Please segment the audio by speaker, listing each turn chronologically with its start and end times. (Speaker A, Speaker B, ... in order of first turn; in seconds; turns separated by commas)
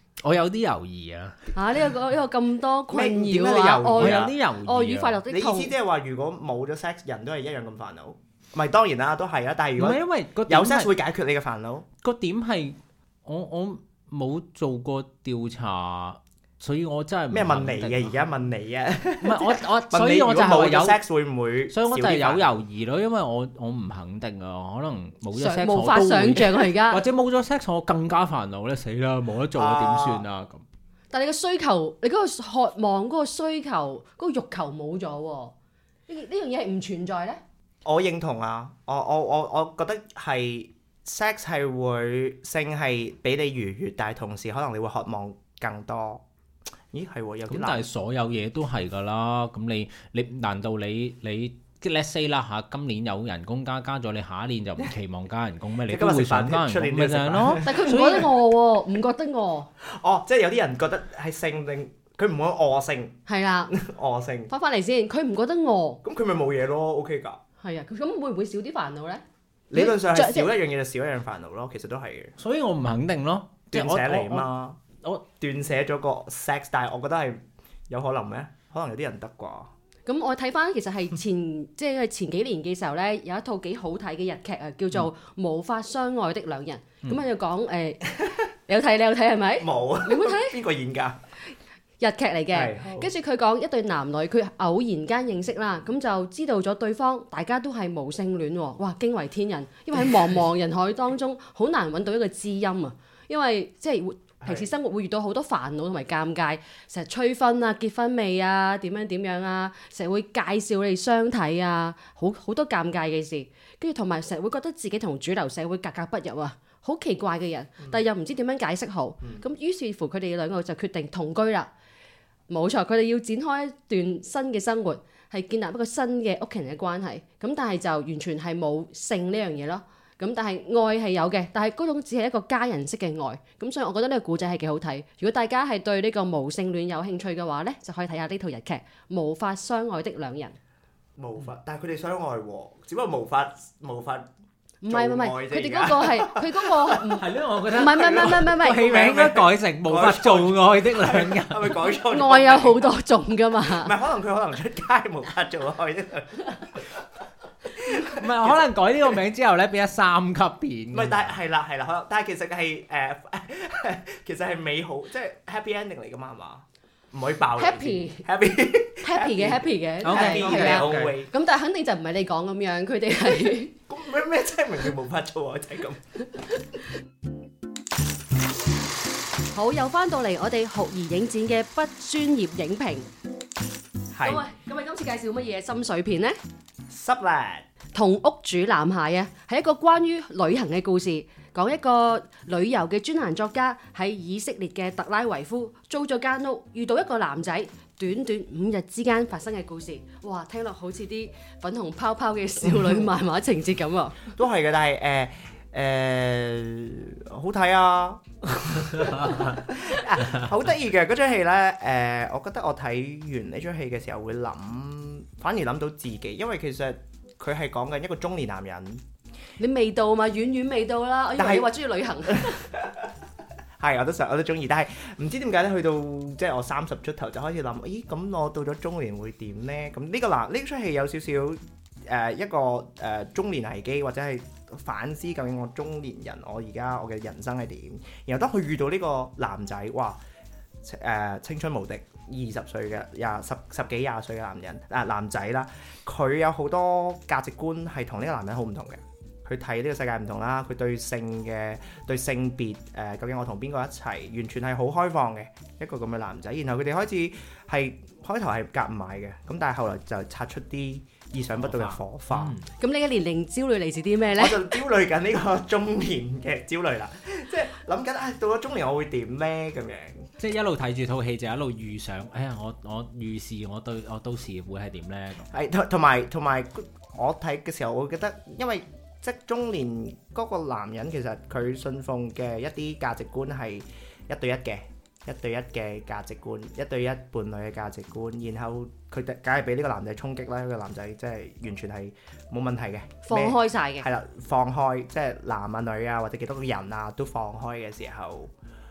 Speaker A: 0.2-1.5, Speaker B: 1.5-5.7, Speaker C: 2.9-4.3, Speaker A: 4.0-5.2, Speaker C: 5.3-11.8, Speaker A: 9.8-10.9, Speaker A: 12.0-18.2, Speaker C: 17.3-22.5, Speaker A: 19.2-21.0, Speaker A: 21.7-30.6, Speaker B: 25.3-27.0, Speaker C: 29.6-30.2, Speaker B: 31.1-35.5, Speaker B: 36.1-37.4, Speaker C: 37.8-46.2, Speaker C: 46.9-47.9, Speaker A: 47.5-58.3, Speaker C: 55.9-58.2, Speaker B: 57.6-59.7, Speaker C: 59.8-63.2, Speaker B: 63.3-63.7, Speaker C: 63.7-64.5, Speaker B: 64.5-66.0, Speaker C: 66.0-67.4, Speaker B: 67.6-69.2, Speaker C: 69.7-72.3, Speaker B: 69.7-70.5, Speaker A: 72.4-74.5, Speaker C: 73.7-74.8, Speaker C: 75.4-79.7, Speaker B: 80.0-90.6, Speaker C: 89.6-91.2, Speaker B: 92.0-121.7, Speaker C: 92.5-93.1, Speaker C: 104.4-104.7, Speaker B: 122.5-140.6, Speaker C: 141.2-144.3, Speaker B: 144.8-148.8, Speaker C: 144.9-147.1, Speaker A: 147.2-151.9, Speaker C: 147.8-152.9, Speaker B: 152.1-153.9, Speaker C: 153.6-157.0, Speaker C: 157.7-158.6, Speaker A: 157.9-161.3, Speaker C: 160.9-171.3, Speaker B: 167.6-168.2, Speaker B: 169.0-173.7, Speaker A: 170.0-171.1, Speaker C: 173.9-176.0, Speaker B: 179.5-183.1, Speaker C: 184.1-184.4, Speaker B: 184.2-186.4, Speaker C: 186.9-187.7, Speaker B: 187.9-204.3, Speaker C: 202.7-203.0, Speaker C: 204.3-219.0, Speaker A: 209.0-209.6, Speaker B: 219.6-222.7, Speaker C: 221.4-221.7, Speaker C: 222.3-223.1, Speaker C: 223.8-240.2, Speaker C: 240.8-262.6, Speaker A: 261.6-262.7, Speaker B: 262.8-264.8, Speaker C: 264.3-270.3, Speaker A: 270.4-275.5, Speaker C: 275.5-298.5, Speaker B: 293.2-294.1